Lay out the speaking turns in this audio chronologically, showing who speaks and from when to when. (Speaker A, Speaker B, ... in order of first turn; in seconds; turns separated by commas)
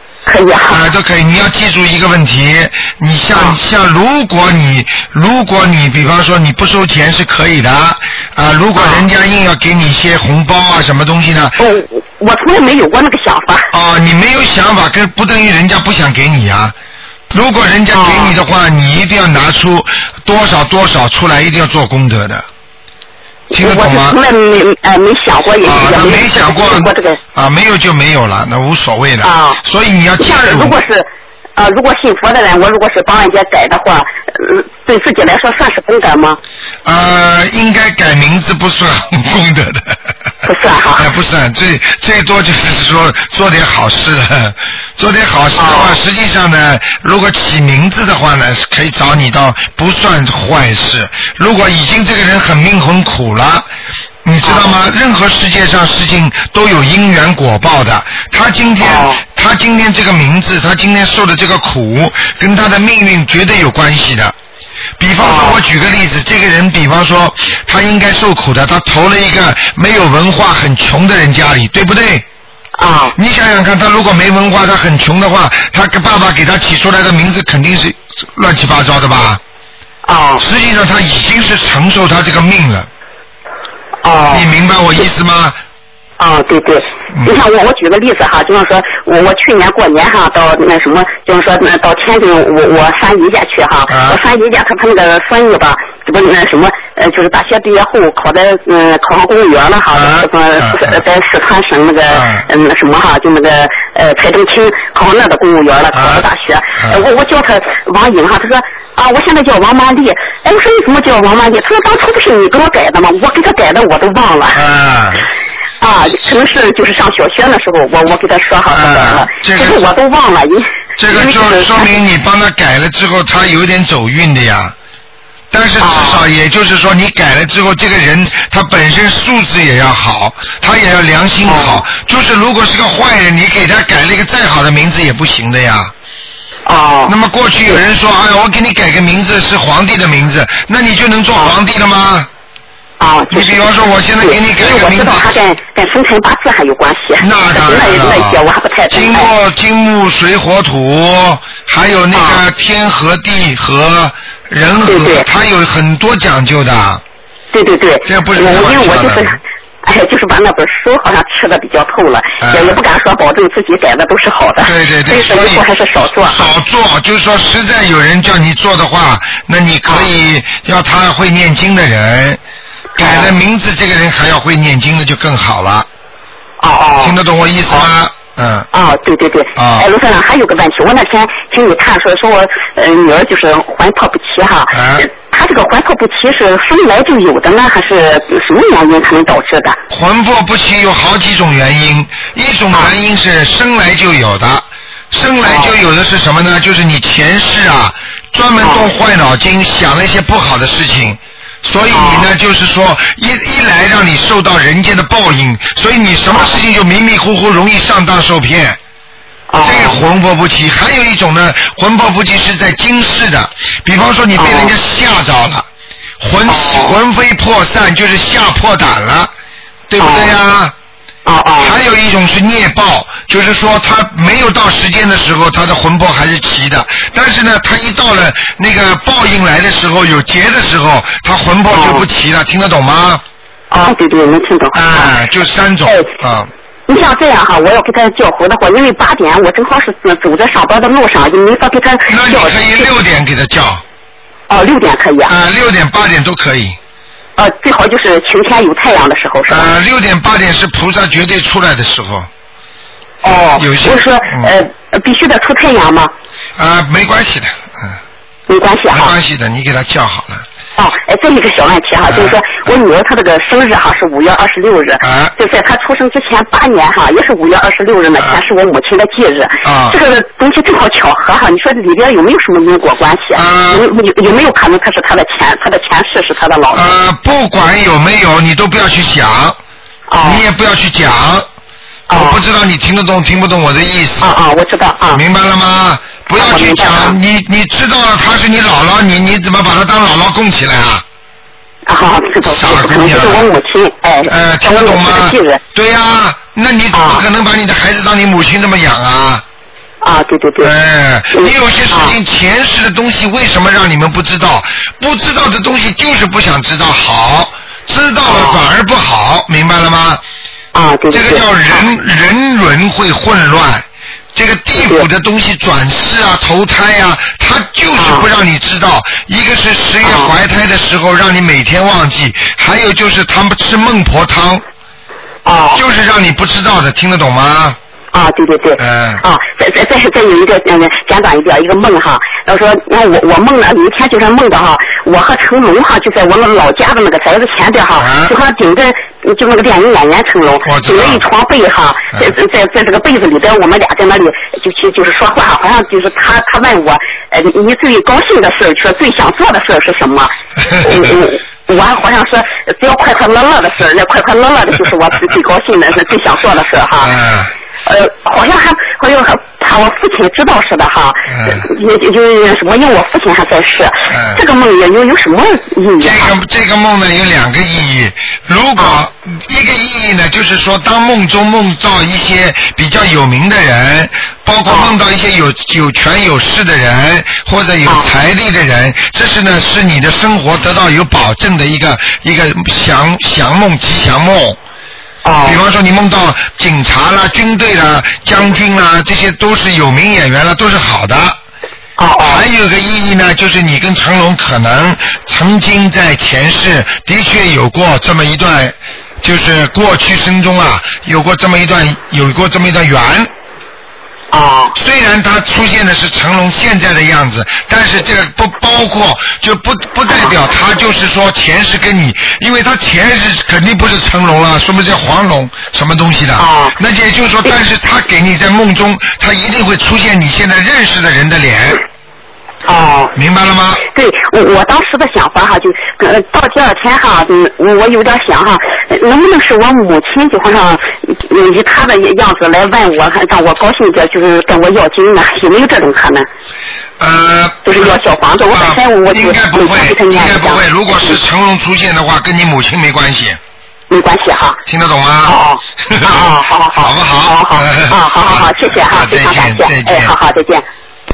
Speaker A: 0.3-0.9, Speaker B: 0.7-11.6, Speaker A: 8.8-9.1, Speaker A: 11.6-13.7, Speaker B: 13.7-16.8, Speaker B: 17.3-22.4, Speaker A: 17.9-18.4, Speaker A: 23.5-27.2, Speaker B: 23.5-24.2, Speaker B: 25.6-30.8, Speaker A: 29.2-29.6, Speaker A: 30.2-36.4, Speaker B: 36.9-40.1, Speaker A: 40.5-41.1, Speaker B: 40.9-53.7, Speaker A: 45.6-46.0, Speaker B: 54.2-64.3, Speaker A: 54.4-54.7, Speaker A: 58.8-59.2, Speaker B: 65.0-72.2, Speaker A: 65.2-65.6, Speaker A: 72.8-73.2, Speaker B: 73.2-79.4, Speaker A: 80.1-80.4, Speaker B: 80.4-82.9, Speaker A: 84.0-84.5, Speaker B: 84.3-85.6, Speaker A: 86.2-114.6, Speaker B: 93.9-94.2, Speaker B: 99.9-101.0, Speaker B: 102.1-102.5, Speaker B: 105.9-106.2, Speaker B: 106.8-107.0, Speaker B: 114.5-115.3, Speaker A: 115.8-121.9, Speaker B: 118.7-119.8, Speaker B: 121.0-124.8, Speaker B: 125.5-135.9, Speaker A: 125.8-126.2, Speaker A: 131.5-131.8, Speaker A: 136.7-137.1, Speaker B: 137.1-142.3, Speaker A: 143.0-143.6, Speaker B: 143.3-145.4, Speaker A: 144.2-149.3, Speaker B: 147.2-157.0, Speaker A: 152.1-152.4, Speaker A: 154.9-155.3, Speaker A: 157.5-166.5, Speaker B: 158.1-159.4, Speaker B: 162.4-162.8, Speaker B: 164.6-165.7, Speaker B: 166.2-172.4, Speaker B: 173.0-175.9, Speaker A: 173.0-173.3, Speaker A: 176.6-177.2, Speaker B: 177.0-178.7, Speaker A: 178.7-189.8, Speaker B: 179.6-179.9, Speaker B: 184.7-185.1, Speaker B: 189.9-208.8, Speaker A: 195.4-195.7, Speaker A: 201.9-202.3, Speaker A: 206.3-206.6, Speaker A: 209.5-210.0, Speaker B: 209.6-215.7, Speaker A: 214.4-214.7, Speaker B: 216.2-219.3, Speaker A: 216.5-216.9, Speaker B: 219.9-220.7, Speaker A: 220.0-220.3, Speaker A: 221.3-221.7, Speaker B: 221.6-233.2, Speaker A: 231.7-232.1, Speaker A: 233.7-235.1, Speaker B: 234.7-236.5, Speaker A: 236.9-242.9, Speaker B: 242.1-243.8, Speaker A: 244.5-245.3, Speaker B: 245.3-246.8, Speaker A: 247.4-249.7, Speaker B: 249.5-252.3, Speaker A: 253.2-256.1, Speaker B: 253.3-254.5, Speaker B: 256.6-258.0, Speaker A: 258.5-259.1, Speaker B: 258.9-260.5, Speaker A: 260.8-276.9, Speaker B: 262.1-262.4, Speaker B: 265.0-265.3, Speaker B: 269.6-270.0, Speaker B: 273.4-273.9, Speaker B: 276.7-279.6, Speaker A: 280.1-280.4, Speaker B: 280.2-281.5, Speaker A: 282.1-282.4, Speaker B: 282.1-284.3, Speaker A: 284.2-285.2, Speaker B: 285.1-291.0, Speaker A: 286.4-287.1, Speaker A: 291.9-295.6, Speaker B: 292.4-293.5, Speaker B: 294.2-299.4, Speaker A: 296.9-297.2, Speaker A: 300.0-300.7, Speaker B: 300.6-310.2, Speaker A: 301.4-302.1, Speaker A: 308.3-308.6, Speaker A: 310.7-311.9, Speaker B: 311.1-324.6, Speaker A: 314.8-315.1, Speaker A: 318.0-318.3, Speaker A: 320.0-320.3, Speaker A: 325.4-325.8, Speaker B: 325.7-327.8, Speaker A: 328.1-357.1, Speaker B: 328.8-329.2, Speaker B: 338.0-338.4, Speaker B: 340.6-341.2, Speaker B: 357.0-357.5, Speaker A: 357.9-366.3, Speaker B: 361.3-361.6, Speaker B: 364.1-364.4, Speaker B: 366.0-384.6, Speaker A: 374.7-374.9, Speaker A: 377.9-378.1, Speaker A: 385.2-385.6, Speaker B: 385.4-391.4, Speaker A: 392.0-392.4, Speaker B: 392.2-403.3, Speaker A: 404.3-404.8, Speaker B: 404.8-421.8, Speaker A: 410.1-410.3, Speaker A: 416.4-416.8, Speaker A: 422.6-423.1, Speaker B: 423.1-423.8, Speaker A: 423.9-436.3, Speaker B: 437.0-437.9, Speaker A: 437.6-441.2, Speaker B: 438.5-443.4, Speaker A: 443.9-444.6, Speaker B: 444.6-450.1, Speaker A: 445.2-450.6